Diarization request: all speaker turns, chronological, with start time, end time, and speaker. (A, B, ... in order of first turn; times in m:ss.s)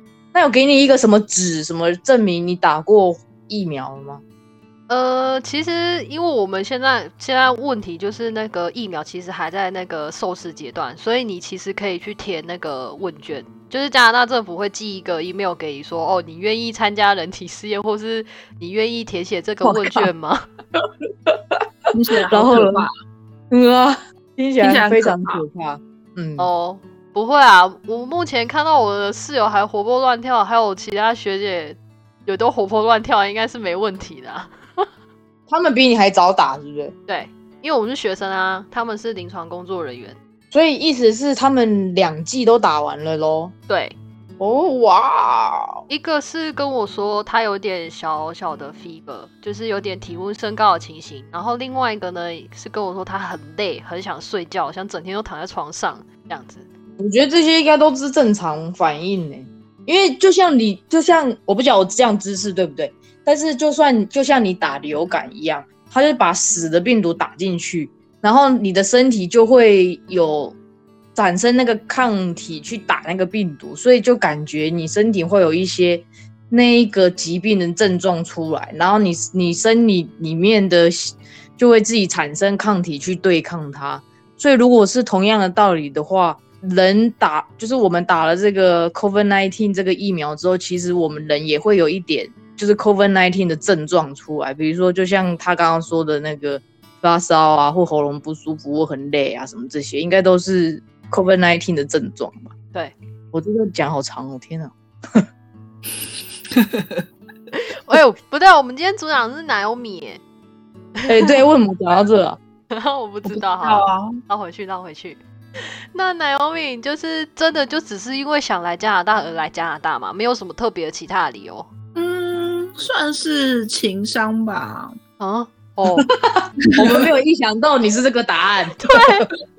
0:00.3-0:04.2 A
0:04.9-0:20.5 B
0:19.6-0:20.1 A
0:20.8-0:21.6 A
0:21.9-0:22.9 C
0:22.3-0:22.9 A
0:23.5-0:26.5 A
0:24.6-0:25.4 C
0:26.4-0:34.9 B
0:35.5-0:37.0 A
0:37.1-0:40.2 B
0:40.5-0:43.5 A
0:43.7-0:44.0 B
0:44.4-0:45.8 A
0:45.9-0:56.7 B
0:57.0-1:10.6 A
1:11.2-1:42.5 A
1:43.3-1:45.2 A
1:46.5-1:47.0 C
1:47.5-1:50.2 B
1:51.0-1:51.4 B
1:51.1-1:52.4 A
1:52.7-1:55.2 B
1:53.3-1:54.2 C
1:55.9-2:01.7 B
2:02.0-2:05.0 C
2:05.2-2:06.1 B
2:06.0-2:09.3 A
2:06.8-2:07.1 C
2:08.8-2:09.3 B